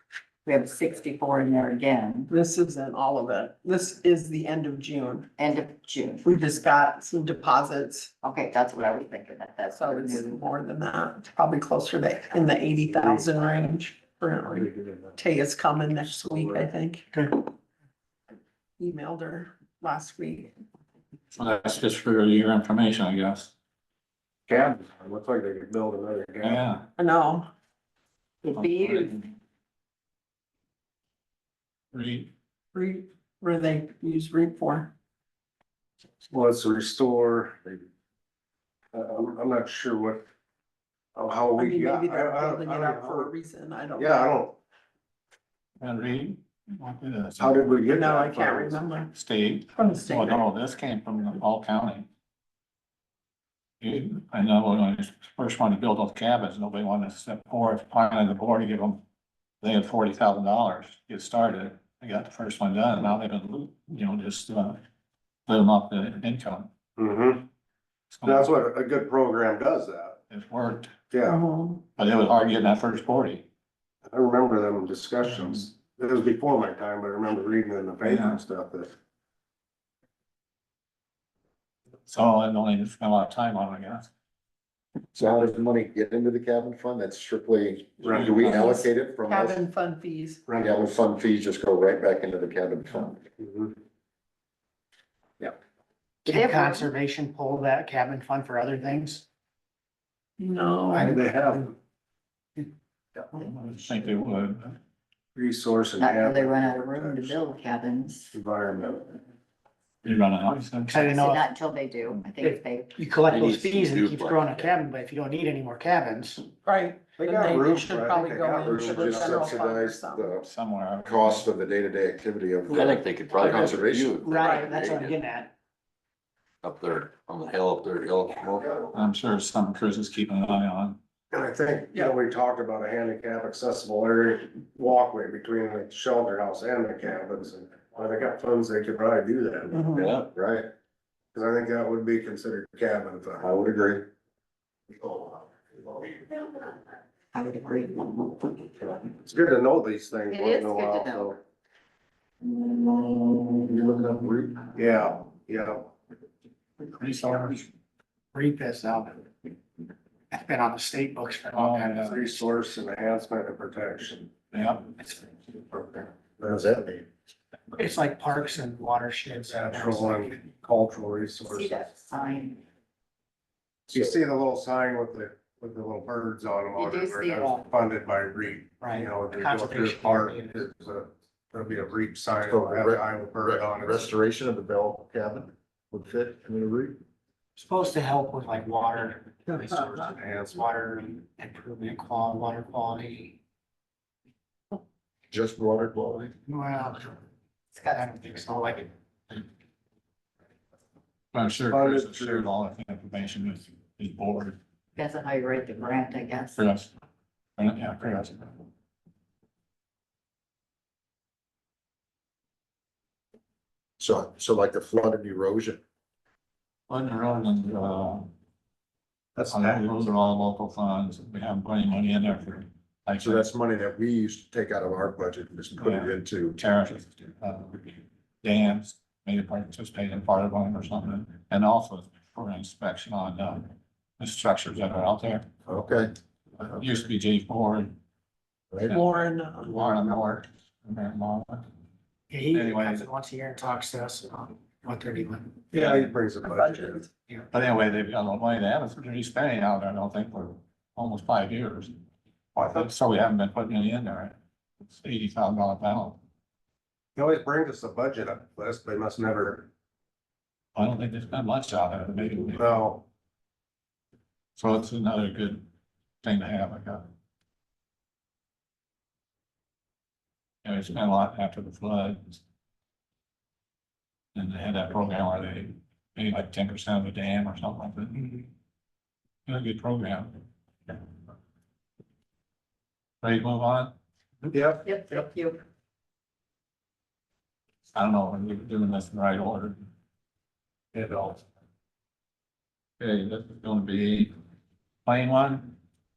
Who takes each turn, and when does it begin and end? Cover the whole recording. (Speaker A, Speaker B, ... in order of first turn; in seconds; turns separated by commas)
Speaker A: 0.5-2.3, Speaker B: 2.3-5.3, Speaker A: 5.4-6.2, Speaker B: 6.2-8.1, Speaker A: 8.2-10.4, Speaker B: 9.7-17.1, Speaker C: 12.9-13.2, Speaker C: 14.5-15.2, Speaker C: 16.1-16.7, Speaker B: 18.8-20.5, Speaker D: 21.3-23.5, Speaker C: 24.5-26.6, Speaker D: 26.4-26.9, Speaker B: 27.0-27.5, Speaker A: 28.4-29.3, Speaker D: 28.6-29.2, Speaker D: 31.9-32.3, Speaker B: 32.7-34.9, Speaker C: 36.3-37.7, Speaker C: 38.9-40.3, Speaker C: 41.1-43.3, Speaker B: 41.6-44.4, Speaker C: 44.0-44.6, Speaker D: 45.8-47.7, Speaker C: 47.4-48.8, Speaker B: 47.9-49.1, Speaker D: 49.1-52.1, Speaker B: 49.8-50.4, Speaker D: 53.8-59.0, Speaker D: 59.6-64.8, Speaker D: 65.5-66.7, Speaker C: 67.0-67.5, Speaker D: 68.1-68.5, Speaker C: 68.2-70.2, Speaker D: 70.3-70.9, Speaker C: 71.1-71.4, Speaker B: 71.2-71.8, Speaker D: 72.0-73.5, Speaker C: 74.1-78.9, Speaker D: 78.0-78.4, Speaker D: 82.1-84.1, Speaker E: 85.1-89.6, Speaker C: 88.0-88.5, Speaker D: 88.2-88.8, Speaker B: 88.4-90.4, Speaker E: 90.5-93.2, Speaker C: 93.4-93.8, Speaker A: 96.2-96.9, Speaker F: 96.3-99.2, Speaker B: 100.4-101.2, Speaker C: 100.9-101.8, Speaker D: 103.4-104.8, Speaker C: 105.3-107.4, Speaker A: 106.0-108.3, Speaker C: 108.3-109.2, Speaker D: 110.0-111.2, Speaker F: 110.9-111.5, Speaker A: 111.1-113.5, Speaker F: 112.4-116.4, Speaker G: 113.3-114.7, Speaker A: 114.0-114.8, Speaker B: 116.7-120.3, Speaker C: 117.2-119.5, Speaker E: 118.6-120.5, Speaker D: 120.4-121.5, Speaker E: 121.0-124.2, Speaker G: 122.7-125.2, Speaker B: 124.3-124.8, Speaker A: 124.4-125.2, Speaker F: 124.5-125.5, Speaker G: 126.6-128.7, Speaker D: 128.9-131.0, Speaker C: 131.3-140.0, Speaker B: 139.7-140.1, Speaker G: 139.9-140.3, Speaker E: 140.2-140.7, Speaker C: 141.3-143.5, Speaker E: 143.4-144.1, Speaker A: 147.3-148.4, Speaker C: 149.1-151.4, Speaker A: 150.3-151.3, Speaker E: 153.4-154.7, Speaker C: 154.8-155.9, Speaker D: 157.0-157.7, Speaker F: 158.3-159.2, Speaker F: 160.3-162.0, Speaker D: 161.5-162.2, Speaker C: 162.0-164.3, Speaker D: 164.5-165.0, Speaker C: 165.7-166.7, Speaker E: 166.4-167.1, Speaker F: 167.8-170.3, Speaker C: 169.3-171.9, Speaker A: 171.5-172.6, Speaker C: 173.9-184.1, Speaker A: 176.8-177.6, Speaker F: 178.8-180.5, Speaker E: 182.4-187.0, Speaker F: 187.6-189.9, Speaker C: 189.5-190.8, Speaker F: 190.9-193.3, Speaker E: 195.3-196.3, Speaker F: 196.5-197.0, Speaker A: 197.7-198.9, Speaker F: 197.9-198.8, Speaker D: 201.3-204.6, Speaker C: 201.7-202.5, Speaker A: 205.0-206.6, Speaker D: 206.6-206.9, Speaker D: 207.6-208.6, Speaker E: 214.0-215.8, Speaker D: 216.9-218.3, Speaker C: 219.3-219.9, Speaker D: 219.5-223.5, Speaker E: 223.2-226.6, Speaker D: 225.8-235.5, Speaker E: 235.7-236.1, Speaker D: 236.6-237.9, Speaker B: 238.9-239.8, Speaker D: 239.6-241.6, Speaker F: 242.5-245.3, Speaker D: 242.5-243.1, Speaker A: 243.5-245.3, Speaker C: 245.7-247.1, Speaker D: 245.8-246.1, Speaker B: 246.4-247.1, Speaker D: 247.5-251.9, Speaker C: 252.6-252.9, Speaker D: 252.6-254.3, Speaker D: 254.9-256.2, Speaker C: 257.2-259.7, Speaker D: 260.8-262.8, Speaker C: 262.6-263.0, Speaker D: 264.6-265.6, Speaker D: 266.2-267.1, Speaker D: 270.6-272.4, Speaker D: 274.3-278.5, Speaker D: 279.5-280.4, Speaker D: 283.2-283.9, Speaker C: 284.5-284.8, Speaker A: 284.8-285.6, Speaker D: 287.9-289.8, Speaker C: 290.9-291.4, Speaker D: 293.0-294.3, Speaker D: 295.1-295.8